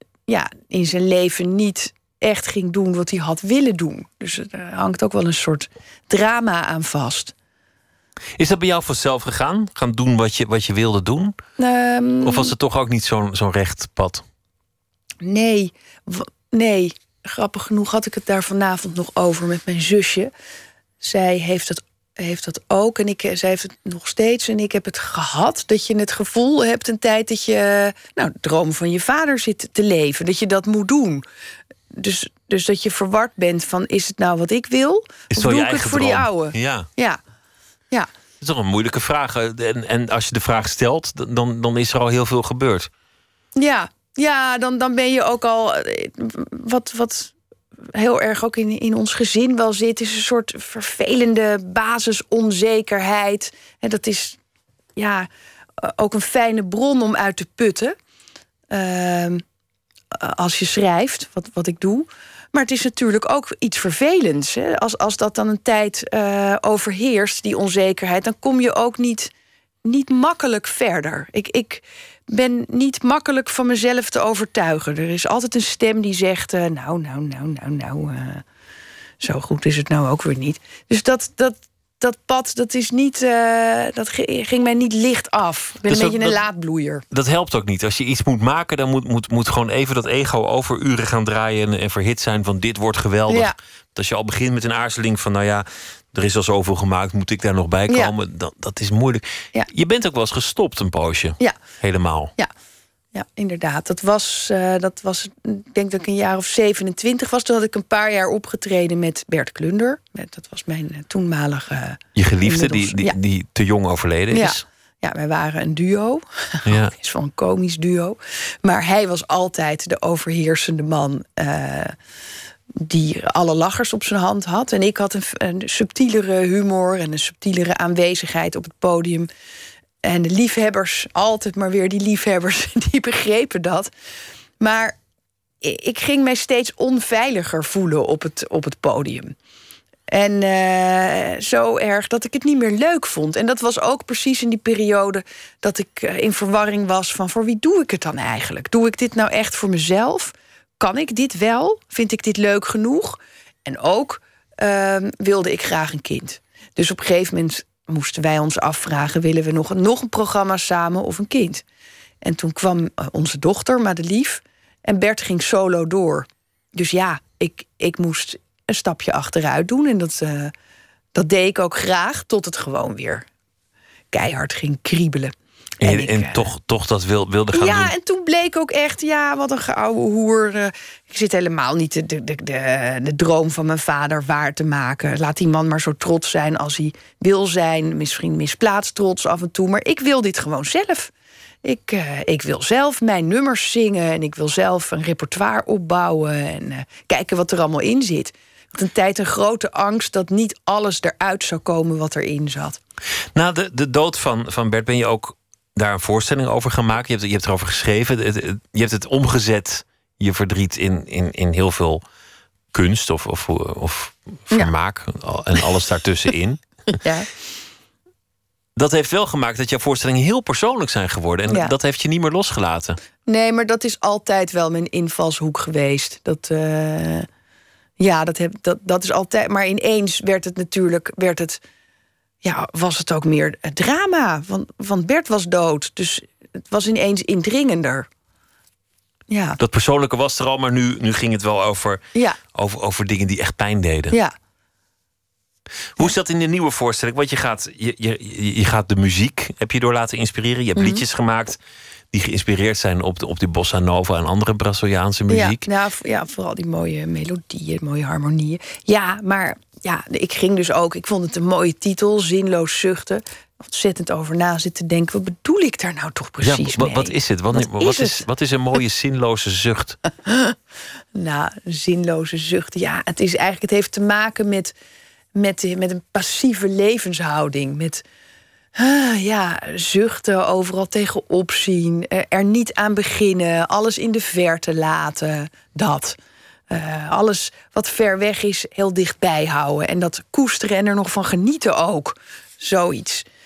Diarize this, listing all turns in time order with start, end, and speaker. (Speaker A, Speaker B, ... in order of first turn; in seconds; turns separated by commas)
Speaker A: 0.3-7.3, Speaker B: 8.4-11.3, Speaker A: 11.6-12.5, Speaker B: 12.2-14.2, Speaker A: 15.2-20.3, Speaker A: 21.0-31.2, Speaker A: 31.9-37.2, Speaker B: 35.3-36.9, Speaker B: 38.4-42.9, Speaker A: 43.5-47.3, Speaker A: 47.9-54.4, Speaker A: 55.0-55.3, Speaker A: 55.8-57.9, Speaker A: 58.7-59.4, Speaker A: 60.1-69.3, Speaker A: 69.8-78.4, Speaker A: 79.2-87.0, Speaker B: 85.8-86.4, Speaker B: 87.1-102.3, Speaker A: 93.3-93.5, Speaker A: 103.1-113.1, Speaker B: 112.2-114.6, Speaker A: 114.3-121.9, Speaker B: 116.7-116.9, Speaker A: 122.8-129.3, Speaker A: 130.0-133.9, Speaker A: 134.6-135.0, Speaker A: 135.6-139.3, Speaker A: 140.1-161.6, Speaker A: 162.2-170.5, Speaker A: 171.1-173.2, Speaker A: 174.1-176.5, Speaker B: 175.8-177.9, Speaker A: 177.5-191.1, Speaker A: 191.6-202.8, Speaker B: 203.3-212.0, Speaker B: 212.7-216.6, Speaker B: 218.8-223.0, Speaker A: 221.5-221.7, Speaker A: 223.3-227.3, Speaker A: 228.0-231.6, Speaker A: 232.4-238.1, Speaker A: 239.3-239.6, Speaker B: 239.6-242.0, Speaker B: 242.5-244.2, Speaker B: 246.0-251.6, Speaker A: 250.8-251.0, Speaker B: 252.1-255.7, Speaker A: 255.3-268.2, Speaker B: 266.4-270.0, Speaker A: 270.2-270.5, Speaker A: 271.1-274.7, Speaker A: 275.4-278.0, Speaker A: 278.8-286.2, Speaker A: 286.7-293.2